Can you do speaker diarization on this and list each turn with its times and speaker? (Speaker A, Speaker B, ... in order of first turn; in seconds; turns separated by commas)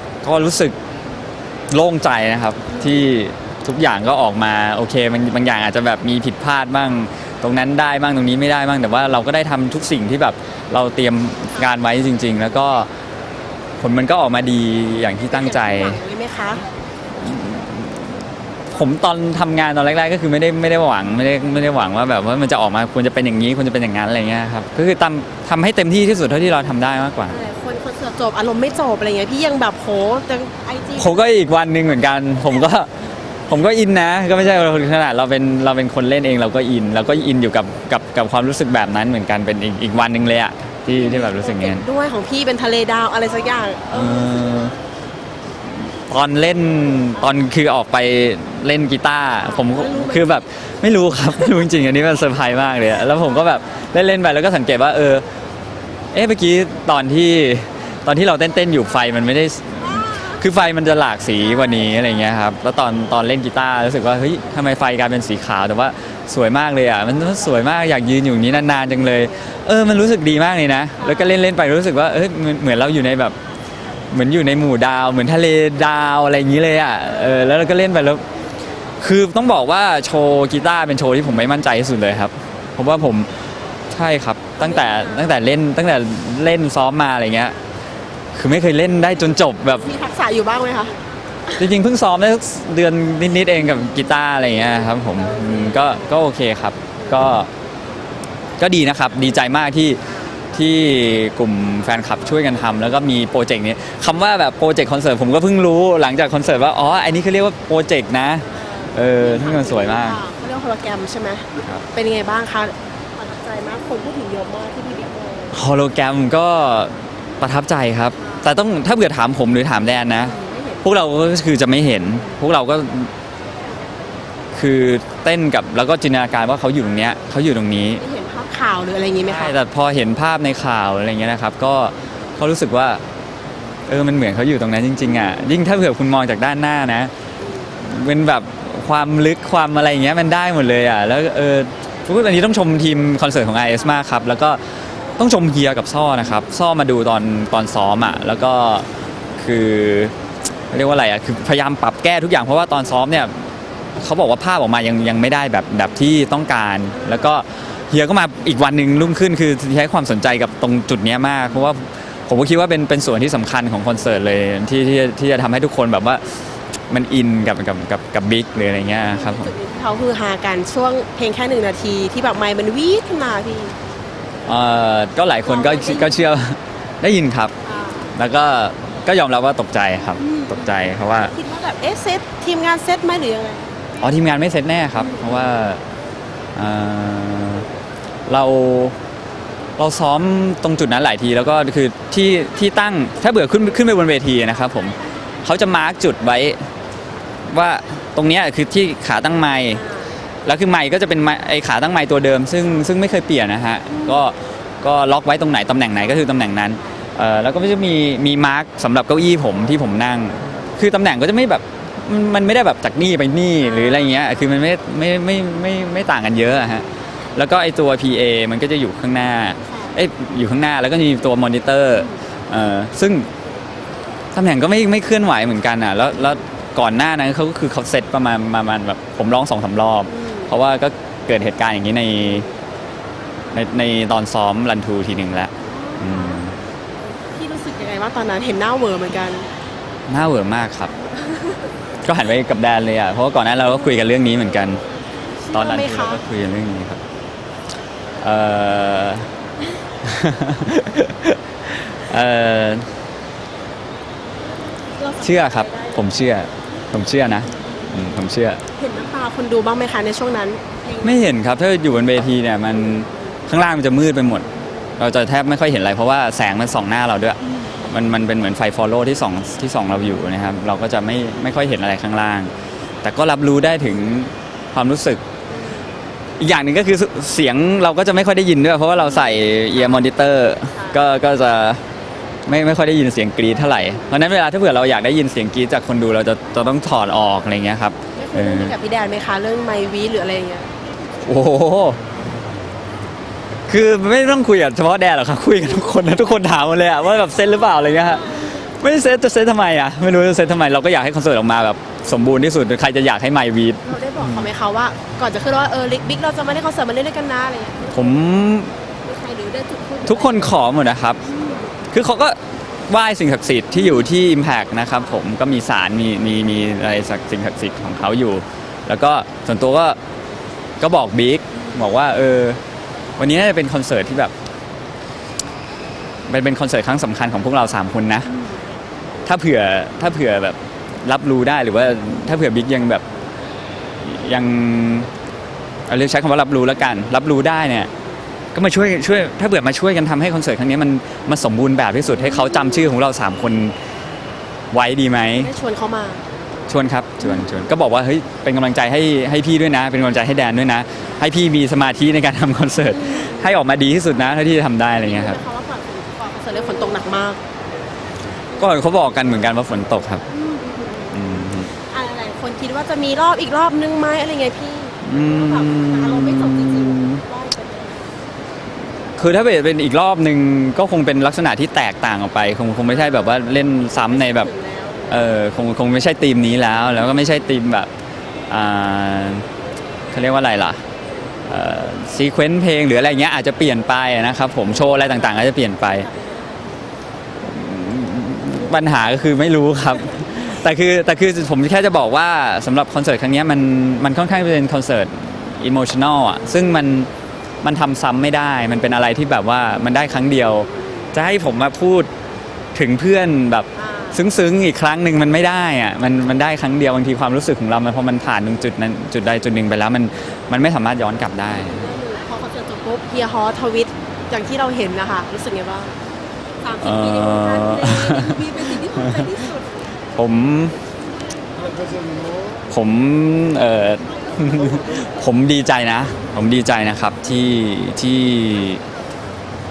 Speaker A: 0.2-0.7, Speaker A: 1.7-12.9, Speaker A: 13.8-16.0, Speaker B: 15.3-16.7, Speaker A: 17.2-18.2, Speaker A: 18.7-27.4, Speaker B: 27.3-31.3, Speaker A: 31.0-32.9, Speaker A: 33.5-41.9, Speaker B: 40.9-44.3, Speaker A: 43.9-44.8, Speaker A: 46.1-55.2, Speaker B: 49.4-50.5, Speaker A: 56.1-73.3, Speaker A: 74.1-78.2, Speaker A: 79.0-83.3, Speaker A: 83.9-87.6, Speaker B: 84.6-85.3, Speaker A: 88.3-89.9, Speaker B: 89.7-91.0, Speaker A: 91.6-97.5, Speaker B: 95.4-96.1, Speaker A: 98.6-100.0, Speaker A: 100.5-110.2, Speaker B: 108.6-115.5, Speaker A: 115.5-123.1, Speaker B: 118.2-118.5, Speaker B: 120.2-120.8, Speaker A: 124.5-128.0, Speaker B: 128.0-129.6, Speaker A: 129.2-133.0, Speaker A: 133.9-137.1, Speaker B: 137.4-137.7, Speaker A: 137.8-144.6, Speaker A: 145.2-148.9, Speaker A: 149.4-150.1, Speaker A: 150.7-153.3, Speaker A: 154.0-166.2, Speaker A: 166.9-169.5, Speaker B: 169.0-173.8, Speaker A: 174.5-177.5, Speaker B: 175.4-176.4, Speaker B: 177.6-178.1, Speaker A: 178.2-181.3, Speaker B: 180.2-180.7, Speaker B: 181.2-183.7, Speaker A: 184.0-185.8, Speaker A: 186.6-187.7, Speaker A: 188.3-188.9, Speaker A: 189.8-196.6, Speaker A: 197.5-199.8, Speaker B: 199.8-200.2, Speaker A: 200.5-223.3, Speaker A: 224.3-232.5, Speaker B: 230.1-230.5, Speaker A: 233.5-236.6, Speaker B: 235.7-236.4, Speaker B: 237.3-239.5, Speaker A: 240.1-240.9, Speaker A: 242.0-244.8, Speaker B: 245.4-246.2, Speaker A: 245.5-247.0, Speaker A: 248.2-249.3, Speaker A: 250.0-252.9, Speaker B: 255.0-256.2, Speaker A: 255.2-258.6, Speaker B: 257.6-257.9, Speaker B: 258.8-261.2, Speaker A: 261.0-264.5, Speaker A: 265.0-272.5, Speaker A: 273.0-275.2, Speaker B: 275.5-275.9, Speaker A: 276.4-281.8, Speaker B: 280.7-281.0, Speaker A: 282.5-288.7, Speaker B: 288.1-290.7, Speaker A: 291.2-292.0, Speaker A: 293.7-304.5, Speaker B: 303.8-308.3, Speaker A: 307.9-308.7, Speaker B: 309.0-310.6, Speaker A: 310.1-311.2, Speaker B: 311.2-311.7, Speaker A: 311.9-320.0, Speaker A: 320.8-322.6, Speaker A: 323.2-324.3, Speaker A: 326.3-328.3, Speaker A: 329.3-333.0, Speaker A: 334.0-335.1, Speaker A: 335.9-337.9, Speaker A: 338.6-343.7, Speaker A: 344.7-345.5, Speaker B: 345.4-346.2, Speaker A: 346.7-355.4, Speaker B: 352.9-353.5, Speaker B: 355.0-357.4, Speaker A: 358.6-360.2, Speaker B: 360.3-361.2, Speaker A: 361.1-361.7, Speaker B: 361.8-368.1, Speaker A: 365.0-367.2, Speaker A: 369.2-374.5, Speaker B: 374.1-375.2, Speaker A: 375.1-377.9, Speaker A: 378.5-379.5, Speaker A: 380.1-380.8, Speaker A: 381.5-386.1, Speaker B: 386.0-386.8, Speaker A: 387.4-397.1, Speaker A: 397.6-402.1, Speaker A: 402.8-411.9, Speaker B: 403.8-404.2, Speaker B: 411.5-416.0, Speaker B: 416.6-419.8, Speaker A: 416.8-418.4, Speaker A: 420.2-420.8, Speaker A: 422.7-428.8